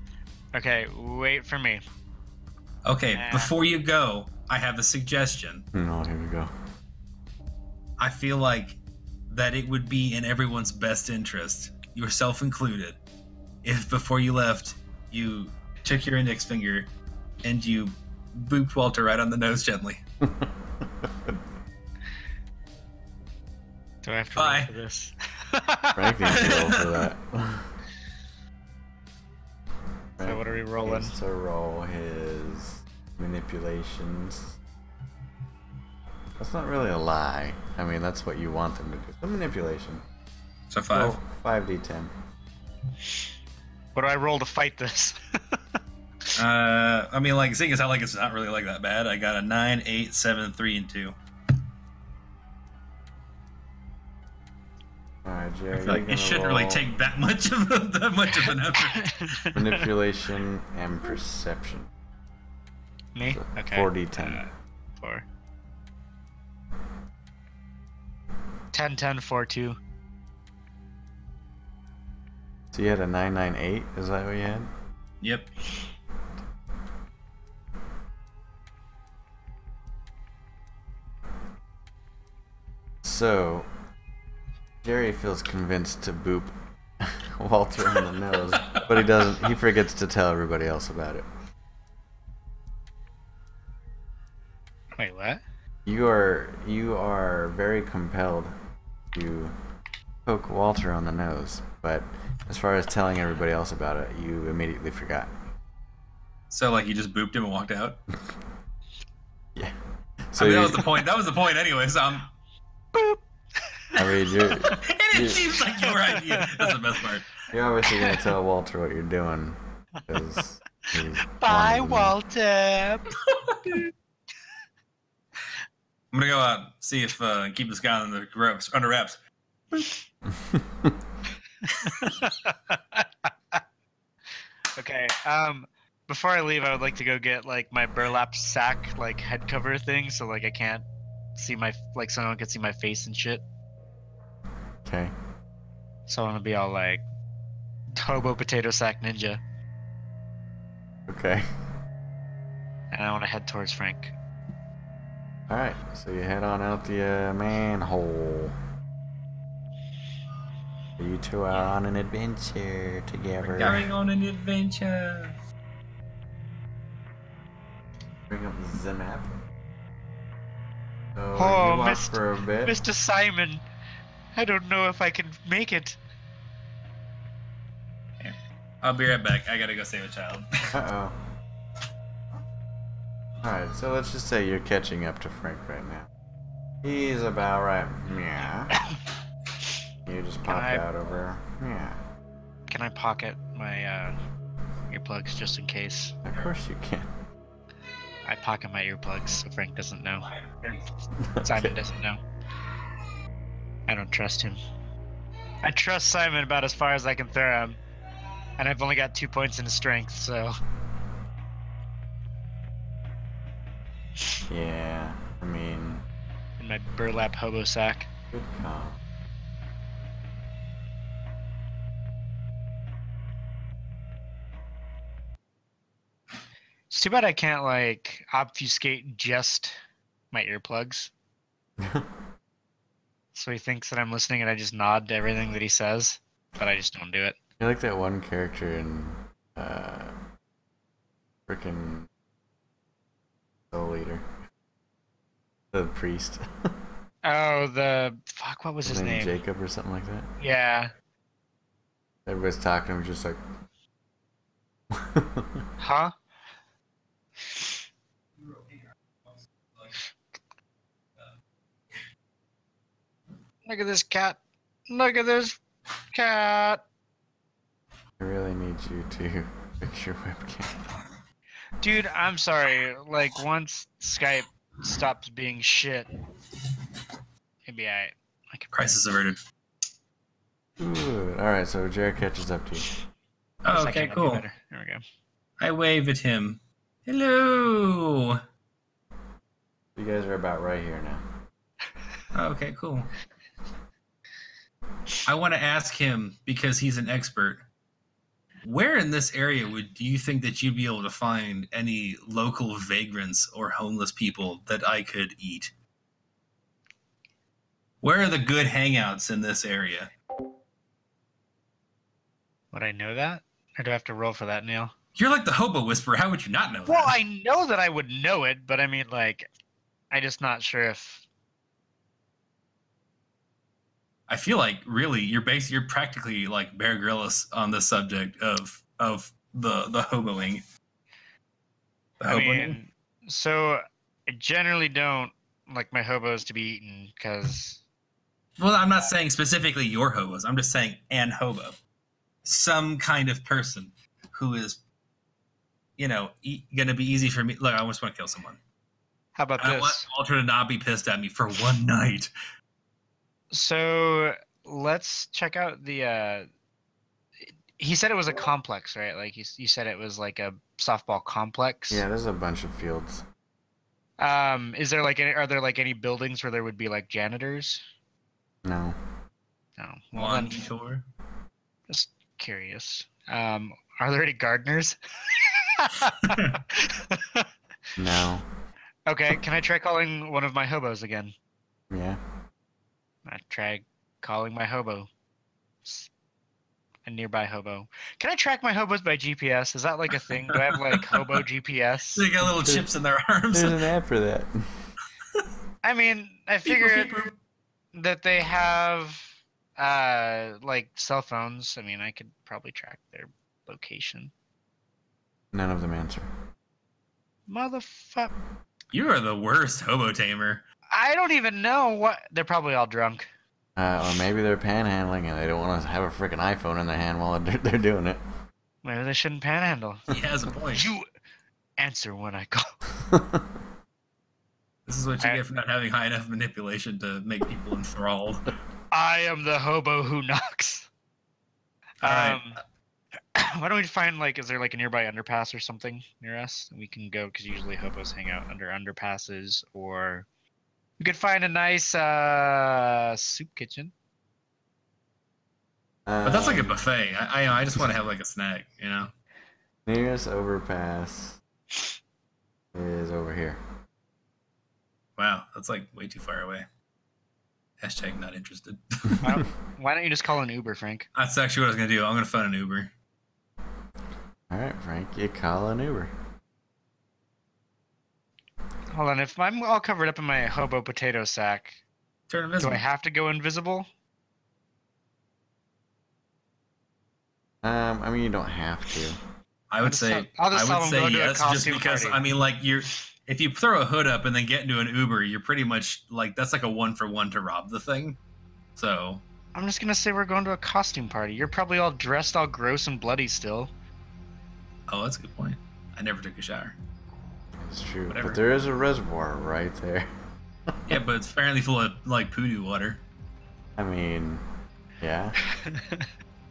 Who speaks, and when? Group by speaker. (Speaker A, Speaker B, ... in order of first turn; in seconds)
Speaker A: 0.5-1.8, 3.1-3.5, 24.0-26.4, 30.2-31.1, 43.9-45.6, 58.4-59.9, 63.1-65.2, 68.7-69.8, 95.0-95.4, 115.8-116.7, 117.9-118.2, 121.3-123.1, 131.9-133.6, 134.8-140.8, 141.3-143.4, 146.1-147.0, 147.9-149.4, 152.9-154.1, 171.4-173.6, 174.3-176.0, 190.5-190.8, 192.7-194.2, 194.9-196.1, 198.2-200.8, 201.4-202.2, 203.9-204.6, 205.6-207.8, 208.6-210.5, 216.6-218.1, 226.9-229.7, 230.3-231.1, 233.3-237.4, 247.2-249.4, 250.4-250.9, 255.8-256.1, 263.6-264.4, 264.9-265.6, 266.1-266.8, 271.8-276.1, 277.6-278.7, 283.7-285.0, 312.7-314.9, 316.9-319.5, 320.1-321.2, 332.3-337.8, 349.4-350.1, 353.5-356.5, 357.8-362.0, 364.2-367.8, 369.8-370.6, 371.9-377.5, 379.1-381.3, 383.2-385.1, 387.0-392.3, 395.8-397.1, 397.9-404.3, 407.5-408.3, 410.9-413.3, 418.8-420.1, 420.7-421.1, 421.8-422.7, 428.9-430.9, 432.0-432.6, 433.3-440.2, 441.0-443.9, 459.2-461.1, 468.9-471.8, 472.6-473.9, 479.8-482.2, 489.5-493.7, 505.4-506.1
Speaker B: 2.8-5.6, 8.0-13.0, 13.6-16.9, 17.4-20.0, 24.4-24.7, 26.3-27.1, 40.7-41.2, 46.4-51.1, 55.7-59.1, 75.2-75.5, 106.5-108.0, 110.4-112.3, 114.8-117.3, 123.3-123.8, 126.1-129.2, 131.8-132.1, 163.4-165.4, 178.2-180.6, 278.7-279.4, 283.6-284.4, 285.6-288.4, 292.3-293.1, 295.2-297.6, 298.6-305.7, 308.0-310.1, 315.1-317.1, 324.3-330.6, 332.2-332.8, 338.6-341.8, 342.4-344.8, 346.0-348.6, 349.6-352.3, 370.1-371.0, 390.5-391.4, 392.1-393.8, 396.6-397.3, 408.9-410.6, 420.1-420.9, 424.9-428.5, 432.0-432.4, 446.2-449.1, 455.2-456.6, 457.8-459.2, 461.1-462.9, 472.3-472.8, 479.7-488.2, 488.8-489.2, 494.9-496.8, 498.1-498.4, 500.9-503.0
Speaker C: 5.7-6.5, 20.2-21.3, 25.9-27.7, 30.2-34.5, 36.4-40.0, 40.9-42.1, 55.2-56.8, 59.5-61.9, 63.2-64.4, 72.7-74.7, 83.0-83.7, 84.8-91.3, 95.8-98.5, 99.1-99.5, 100.2-105.3, 110.3-110.9, 114.0-115.5, 117.5-122.1, 130.3-131.0, 144.8-145.1, 151.1-151.4, 155.5-158.6, 161.0-163.9, 168.3-169.4, 171.1-172.8, 180.7-181.2, 183.4-186.1, 186.8-188.8, 190.1-192.0, 196.2-197.1, 201.2-201.8, 214.5-216.0, 218.3-219.0, 231.8-232.1, 237.6-240.2, 241.5-242.1, 243.7-244.2, 245.7-246.4, 248.8-250.3, 252.2-253.4, 254.9-255.6, 268.2-270.8, 280.8-282.9, 289.9-291.2, 361.9-363.2, 368.6-369.0, 378.0-378.4, 381.9-382.2, 392.4-392.8, 393.5-394.6, 405.5-406.3, 413.8-418.2, 423.0-423.5, 446.1-446.8, 449.9-451.4, 452.7-453.6, 464.5-466.1, 477.6-479.2, 497.6-500.1, 503.8-504.4, 505.0-505.4